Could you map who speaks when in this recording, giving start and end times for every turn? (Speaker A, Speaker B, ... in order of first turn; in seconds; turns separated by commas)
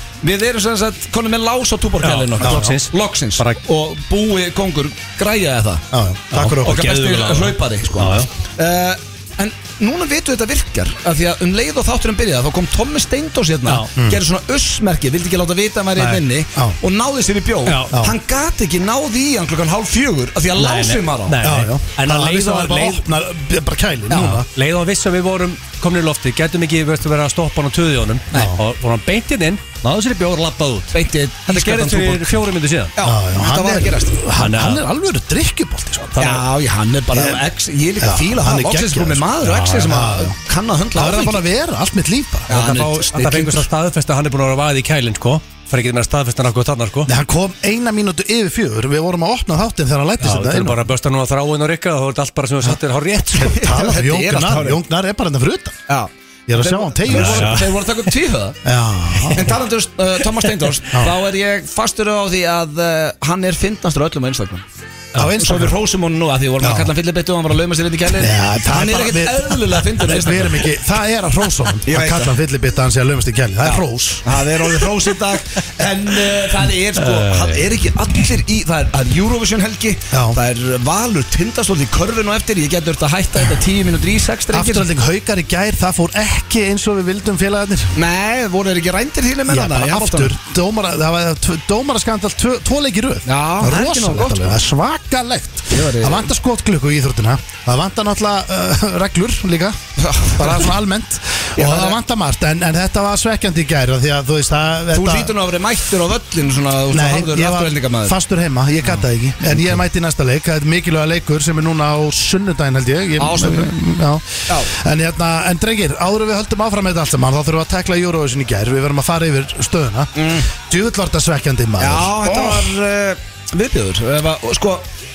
Speaker A: 0.2-5.8, Speaker B: 2.0-3.6, Speaker C: 2.4-2.7, Speaker C: 5.9-6.8, Speaker B: 6.3-8.3, Speaker A: 6.6-21.4, Speaker C: 13.9-14.2, Speaker B: 17.6-18.0, Speaker B: 20.5-23.0, Speaker C: 21.4-24.5, Speaker B: 24.1-30.9, Speaker A: 30.9-32.4, Speaker B: 31.5-32.9, Speaker A: 33.0-34.2, Speaker C: 33.0-36.2, Speaker B: 34.4-34.8, Speaker B: 36.1-36.4, Speaker A: 36.2-41.4, Speaker C: 37.1-37.4, Speaker C: 38.0-40.4, Speaker B: 39.4-40.0, Speaker C: 40.9-42.5, Speaker A: 42.5-43.6, Speaker B: 42.5-47.1, Speaker C: 47.0-50.8, Speaker B: 50.2-53.6, Speaker C: 53.4-55.8, Speaker A: 53.4-54.8, Speaker A: 55.9-58.6, Speaker C: 56.5-57.6, Speaker B: 57.1-57.8, Speaker C: 58.6-59.5, Speaker A: 59.3-64.6, Speaker C: 65.1-65.8, Speaker A: 65.4-70.7, Speaker C: 66.6-66.9, Speaker C: 68.2-74.4, Speaker A: 71.9-72.3, Speaker A: 73.6-84.8, Speaker B: 77.0-77.7, Speaker C: 80.1-80.4, Speaker C: 84.5-88.0, Speaker A: 87.9-90.3, Speaker C: 89.5-99.8, Speaker A: 93.2-94.5, Speaker A: 95.7-96.3, Speaker A: 100.0-100.8, Speaker C: 100.3-105.3, Speaker A: 101.5-102.0, Speaker A: 104.9-108.2, Speaker C: 106.9-122.7, Speaker A: 113.2-113.7, Speaker A: 120.1-120.5, Speaker A: 121.8-124.9